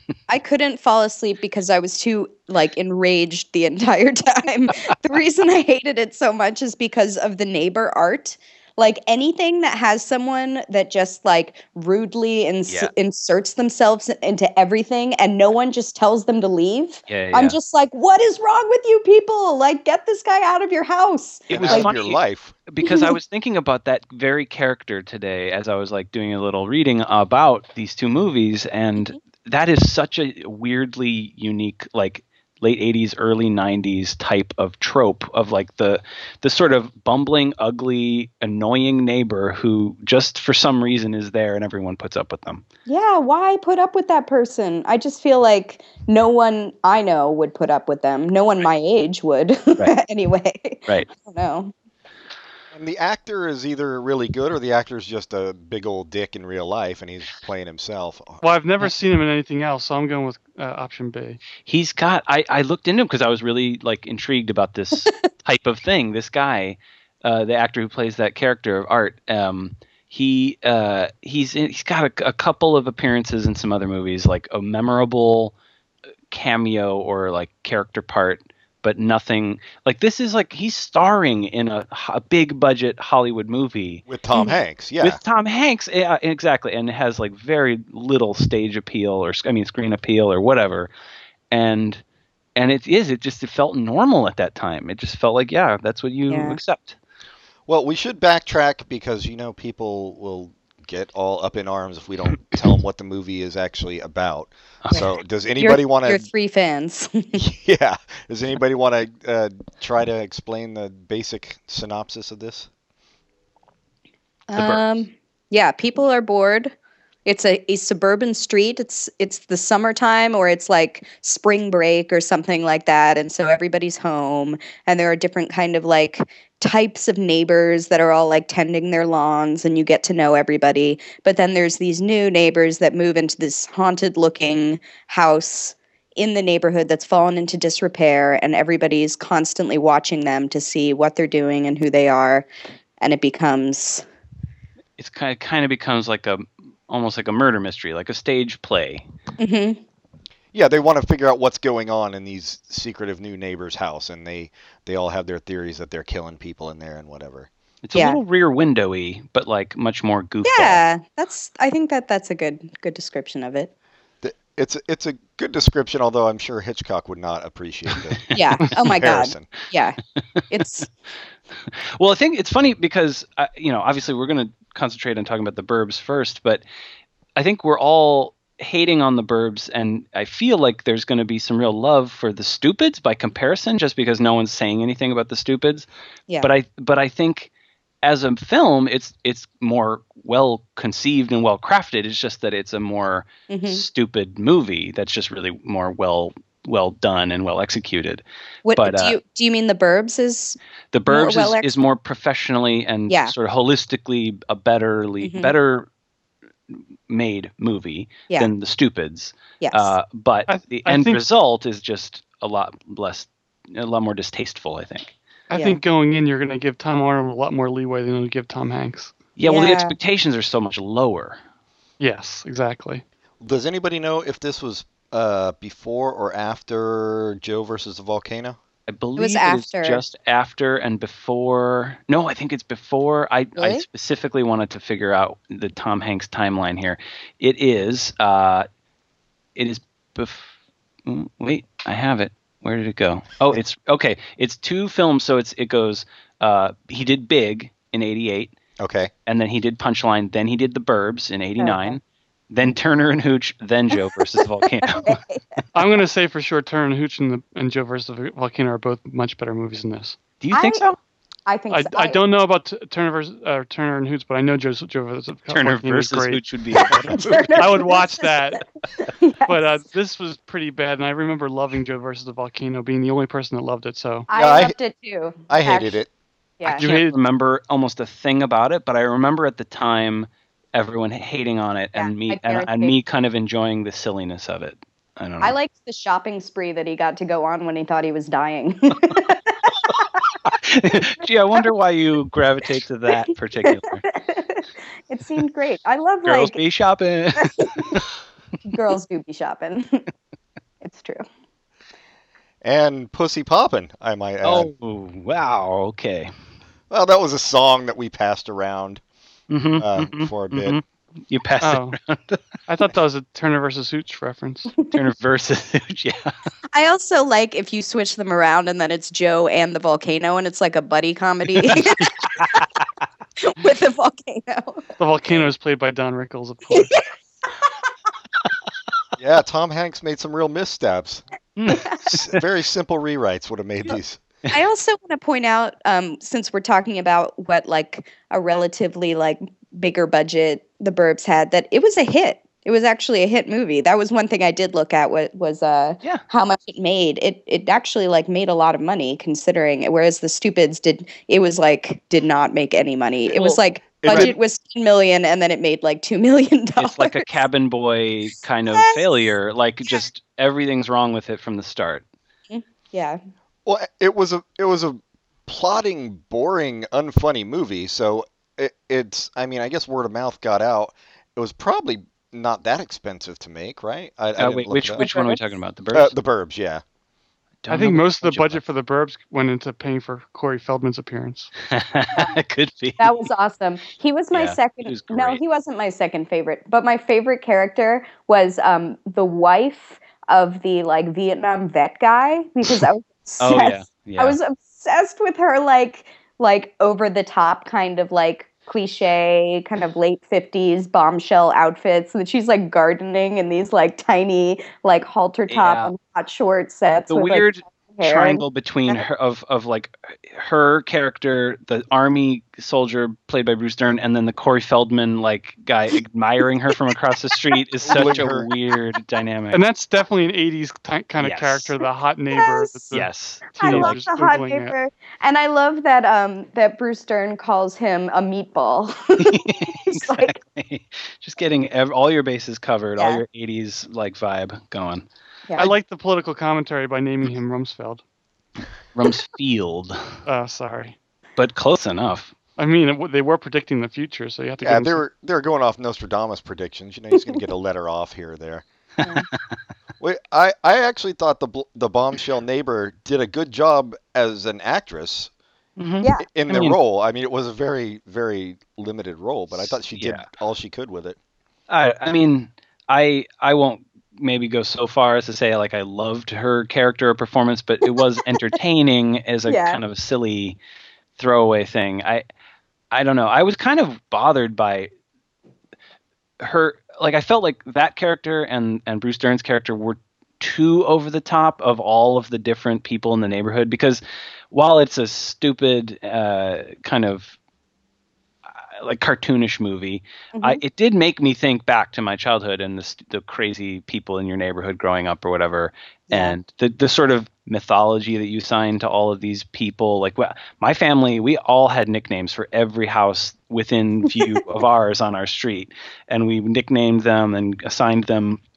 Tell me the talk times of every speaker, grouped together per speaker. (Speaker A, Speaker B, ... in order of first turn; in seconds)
Speaker A: 0.3-21.9, 22.8-23.1, 42.9-51.7, 84.3-84.6, 96.3-96.6, 105.6-107.4, 114.5-116.7, 117.2-142.4, 143.0-144.0, 149.4-149.8, 157.9-158.2, 160.4-163.7, 168.3-170.0, 170.5-170.9, 193.5-193.8, 198.6-201.8, 203.1-203.3, 205.2-205.5, 209.6-209.9, 215.5-215.8, 219.4-219.9, 229.2-230.0, 233.6-233.8, 251.6-252.0, 254.8-255.4, 260.5-260.8, 261.5-262.2, 267.1-269.8, 274.3-276.0, 276.6-276.9, 282.0-282.9, 285.4-290.1, 291.2-291.6, 293.7-296.6, 297.4-298.0, 298.7-300.0, 300.8-301.2, 316.7-322.6, 323.4-325.4, 326.7-327.0, 334.5-357.3, 358.7-359.0, 362.5-363.2, 375.0-375.4, 383.0-409.0, 422.4-422.8, 423.6-430.3, 433.0-433.2, 467.9-468.5, 469.4-469.8, 490.3-490.6, 496.1-496.4
Speaker B: 17.1-17.6, 21.5-42.6, 61.6-75.5, 76.3-84.0, 85.0-90.9, 91.5-92.0, 92.5-97.0, 114.5-115.0, 145.0-149.0, 157.8-160.8, 171.6-176.6, 177.3-185.9, 186.4-187.5, 188.0-198.2, 198.8-199.2, 200.9-205.9, 206.7-215.1, 219.4-221.4, 228.9-238.7, 239.6-240.5, 241.1-248.5, 249.3-255.2, 260.4-261.0, 265.5-267.8, 276.8-285.5, 290.4-294.0, 296.2-298.0, 304.4-306.3, 309.5-312.4, 314.9-316.3, 331.6-332.4, 353.3-354.3, 356.8-362.0, 374.4-376.1, 377.6-378.6, 381.7-383.2, 384.3-385.4, 393.4-394.4, 405.5-405.9, 407.1-419.6, 421.2-421.7, 422.9-423.9, 429.2-435.0, 438.9-440.0, 441.4-442.3, 455.8-456.8, 459.5-460.2, 461.7-470.6, 471.2-472.2, 472.9-474.9, 476.4-487.3, 488.5-508.4
Speaker C: 21.5-22.6, 52.7-58.4, 84.1-85.2, 97.7-106.3, 107.3-112.7, 150.5-157.5, 164.2-169.5, 223.4-228.6, 248.8-249.1, 274.3-274.7, 275.5-276.1, 302.6-304.7, 306.9-309.0, 309.8-310.8, 329.2-334.2, 354.0-354.3, 363.6-375.0, 375.9-376.8, 417.8-418.5, 444.6-448.6, 450.0-455.3, 456.2-461.2
Speaker D: 58.4-61.4, 210.5-211.2, 215.5-219.1, 222.0-223.0, 255.7-260.2, 261.7-268.6, 269.5-274.3, 276.6-277.1, 311.6-312.0, 312.7-314.7, 325.0-326.9, 377.7-381.5, 419.5-424.8, 435.6-438.0, 440.2-440.9, 442.6-445.0